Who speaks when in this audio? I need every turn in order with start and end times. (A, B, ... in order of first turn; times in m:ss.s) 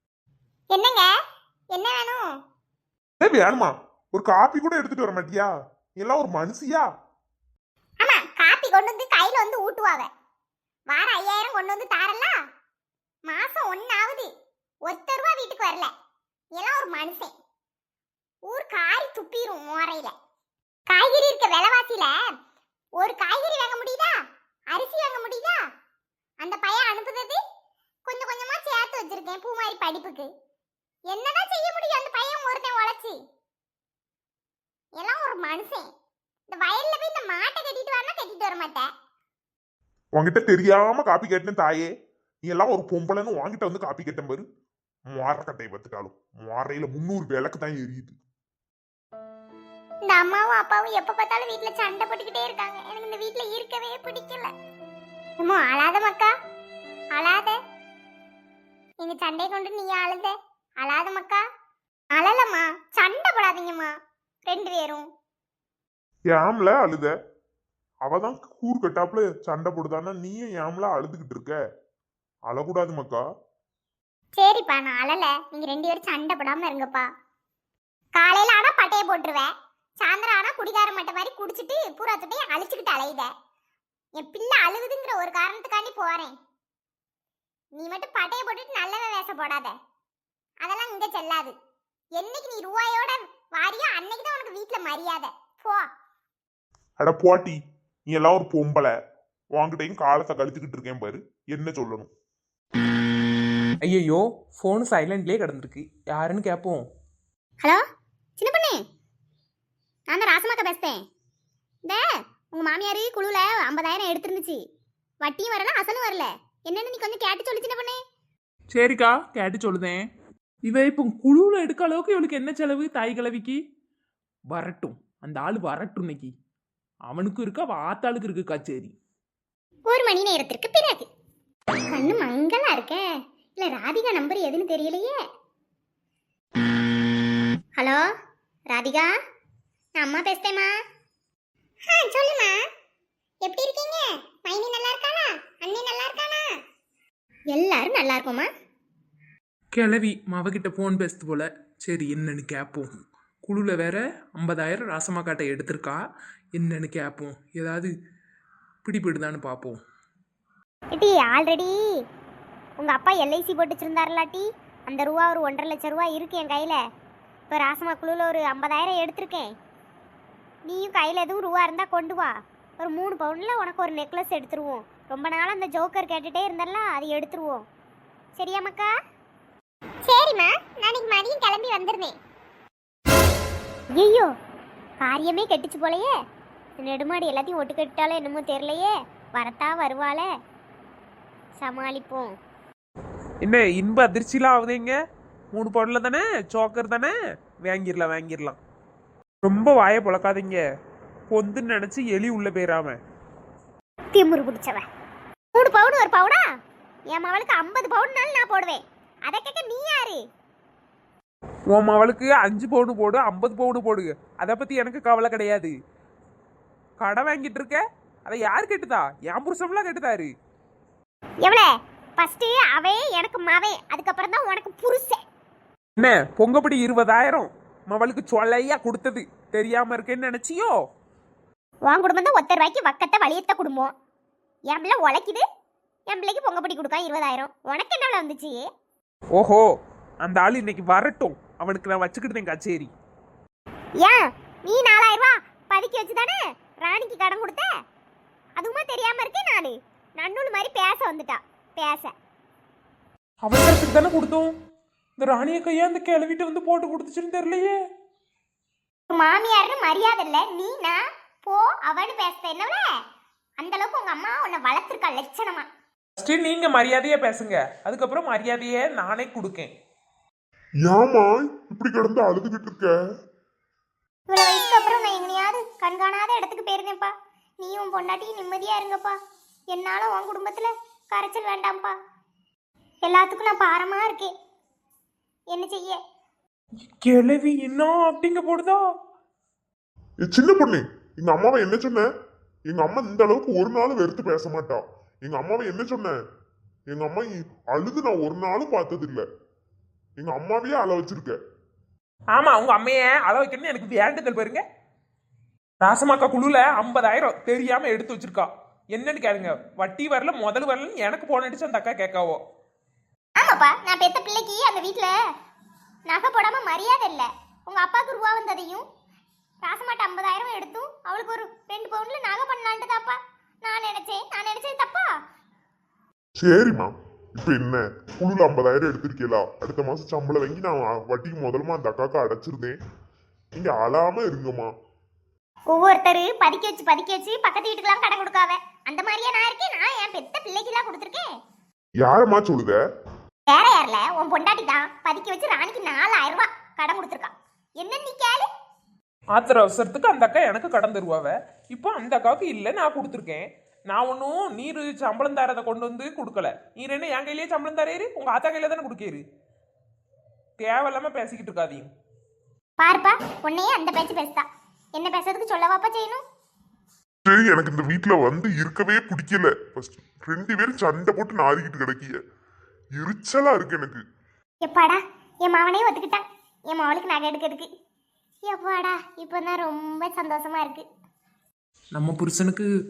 0:00.7-0:01.1 A
0:01.7-0:02.3 A
0:03.2-0:06.9 B
0:08.0-0:10.1 A
0:10.9-0:12.4 A
0:13.3-0:14.3 A
0:14.8-0:15.9 A
0:16.5-0:17.3 A
0:18.5-0:20.1 A
0:20.9-0:22.2 A
0:23.0-0:24.1 A
0:24.7-0:25.6 A
0:26.4-0:27.4 A
0:28.1-0:30.3 A
0:31.1-0:33.2 A
0:35.0-0:35.9 A
0:36.5-0:38.9 A
0:40.2-0:41.9 B
0:42.4-0:44.4 B
0:45.1-0:48.2 B
0:50.0-0:54.5 A
0:55.4-0:56.3 A
0:57.1-0:57.6 A
0:59.0-1:01.4 A
1:02.1-1:03.9 A
1:04.5-1:05.0 A
1:06.3-1:07.1 B
1:08.0-1:11.6 B
1:12.5-1:13.2 B
1:14.4-1:17.1 A
1:18.2-1:23.3 A
1:24.2-1:26.3 A
1:27.7-1:29.8 A
1:30.6-1:31.5 A
1:32.2-1:35.9 A
1:37.0-1:38.9 B
1:39.5-1:42.1 B
1:43.8-1:46.8 C
1:48.4-1:48.8 A
1:50.1-1:51.0 A
1:51.8-1:54.6 A
1:55.2-1:58.0 A
1:58.7-2:00.1 C
2:00.6-2:03.6 C
2:04.5-2:06.3 C
2:07.1-2:08.9 C
2:09.9-2:11.1 A
2:11.9-2:13.0 A
2:13.6-2:15.2 A
2:17.8-2:18.0 A
2:18.7-2:19.1 A
2:20.0-2:20.7 A
2:21.9-2:22.6 A
2:23.4-2:26.5 A
2:27.5-2:28.5 A
2:29.7-2:32.9 C
2:33.4-2:36.0 C
2:36.6-2:37.9 C
2:38.8-2:39.8 C
2:40.9-2:41.8 A
2:42.8-2:46.8 A
2:47.5-2:49.5 A
2:50.7-2:57.6 A
2:58.4-2:58.9 A
3:00.0-3:02.2 A
3:03.9-3:04.3 A
3:05.0-3:06.1 A
3:06.8-3:10.3 A
3:11.6-3:12.4 A
3:13.4-3:15.0 C
3:15.5-3:18.6 C
3:19.4-3:20.6 C
3:21.3-3:23.0 C
3:24.1-3:24.9 A
3:25.6-3:26.5 A
3:27.1-3:30.2 A
3:31.7-3:35.7 C
3:37.0-3:40.3 C
3:41.4-3:45.2 A
3:46.0-3:50.8 C
3:51.8-3:53.9 A
3:54.7-3:55.4 A
3:56.1-3:58.6 A
3:59.4-3:59.7 C
4:00.2-4:02.9 C
4:04.0-4:07.7 A
4:08.6-4:12.1 A
4:13.4-4:14.5 C
4:15.2-4:17.8 C
4:19.1-4:22.9 A
4:23.6-4:25.7 A
4:26.2-4:29.7 C
4:30.8-4:33.0 B
4:34.3-4:39.2 A
4:39.7-4:41.9 A
4:43.0-4:44.3 A
4:45.5-4:46.0 A
4:47.0-4:48.8 C
4:50.2-4:52.1 B
4:52.7-4:56.2 B
4:56.9-4:59.3 B
5:00.2-5:01.4 B
5:02.3-5:04.6 C
5:05.8-5:12.4 C
5:13.4-5:15.1 A
5:16.1-5:18.9 A
5:19.6-5:25.1 A
5:26.4-5:32.8 B
5:33.6-5:34.7 B
5:35.7-5:41.3 A
5:42.0-5:42.8 B
5:43.5-5:48.5 A
5:49.3-5:59.2 C
6:00.6-6:01.9 C
6:02.8-6:06.2 A
6:07.3-6:12.2 B
6:13.0-6:14.0 B
6:14.6-6:17.7 A
6:18.4-6:20.8 A
6:21.9-6:22.7 C